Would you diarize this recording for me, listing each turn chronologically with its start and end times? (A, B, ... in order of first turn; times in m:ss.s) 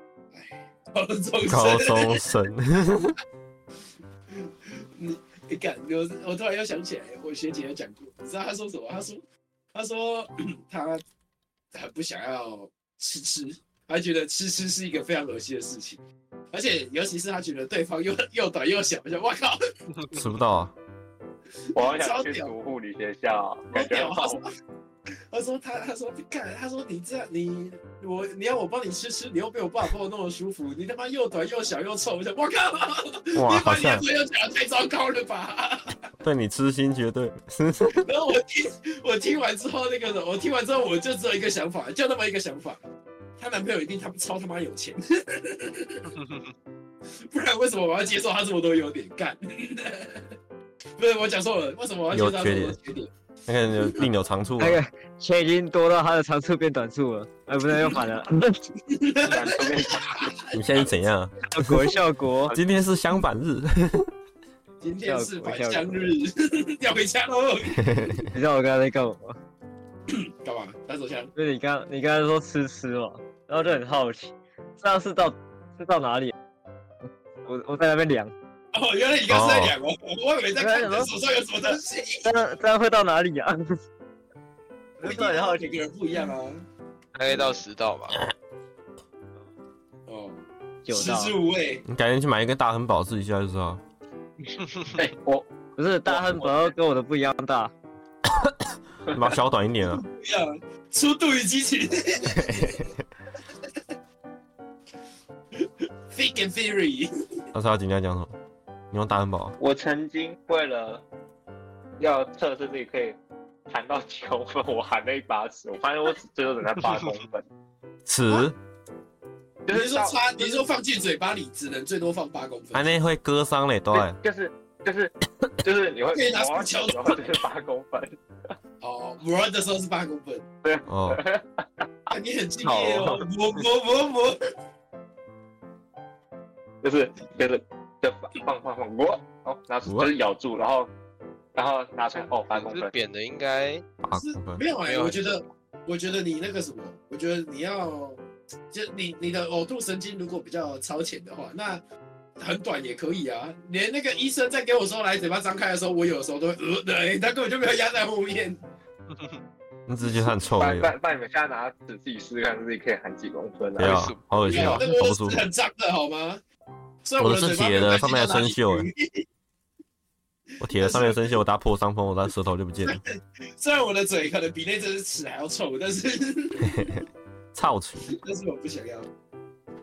0:00.3-0:02.2 A
0:01.4-0:03.2 B
0:04.3-0:09.2 A
0:09.7-0:11.0 A
0:11.7-0:19.6 A
0:20.1-0:20.7 B
0:21.7-0:22.5 A
0:21.8-0:24.4 C
0:23.7-0:24.5 A
0:25.3-0:36.1 A
0:33.4-0:34.0 B
0:36.2-0:38.0 B
0:37.9-0:42.8 A
0:43.4-0:46.1 A
0:47.2-0:50.3 A
0:51.0-0:53.1 A
0:52.1-0:52.8 B
0:53.5-0:54.8 B
0:53.8-0:54.0 A
0:54.6-0:58.6 D
0:58.9-1:01.0 A
0:59.3-1:00.2 C
1:00.5-1:01.4 B
1:01.5-1:02.6 D
1:02.5-1:04.1 B
1:04.8-1:08.2 A
1:05.0-1:06.1 D
1:07.8-1:08.2 B
1:08.3-1:09.4 D
1:10.1-1:11.3 A
1:11.4-1:16.3 D
1:17.4-1:18.3 D
1:18.7-1:22.3 A
1:19.3-1:19.8 B
1:20.6-1:21.1 D
1:22.2-1:23.8 D
1:25.0-1:26.6 A
1:25.0-1:25.8 D
1:27.2-1:28.2 E
1:30.1-1:31.8 A
1:30.8-1:31.4 D
1:31.9-1:33.8 B
1:35.0-1:35.5 C
1:35.8-1:37.7 D
1:36.1-1:36.7 C
1:39.1-1:40.0 B
1:39.9-1:42.8 A
1:42.3-1:43.0 B
1:45.6-1:47.4 A
1:47.5-1:48.3 B
1:48.9-1:49.6 B
1:49.6-1:51.0 C
1:52.0-1:53.2 C
1:53.7-1:57.4 C
1:58.1-1:58.6 B
1:59.7-2:00.7 C
1:59.7-2:03.0 A
2:02.7-2:04.2 B
2:03.9-2:08.2 C
2:06.1-2:07.2 A
2:08.8-2:10.5 A
2:10.6-2:11.6 C
2:10.9-2:11.2 B
2:12.1-2:14.4 A
2:12.6-2:13.3 C
2:16.8-2:20.9 C
2:19.9-2:20.1 B
2:21.6-2:23.0 C
2:22.5-2:23.8 E
2:24.0-2:24.6 B
2:24.1-2:31.8 A
2:24.8-2:25.4 E
2:32.4-2:38.6 A
2:39.9-2:40.9 B
2:40.6-2:44.0 C
2:43.8-2:45.5 B
2:43.8-2:44.9 E
2:44.5-2:46.4 A
2:47.0-2:49.3 A
2:47.2-2:48.9 B
2:50.6-2:51.3 A
2:50.6-2:53.0 B
2:52.8-2:57.0 A
2:56.6-2:58.2 B
2:58.1-2:59.1 A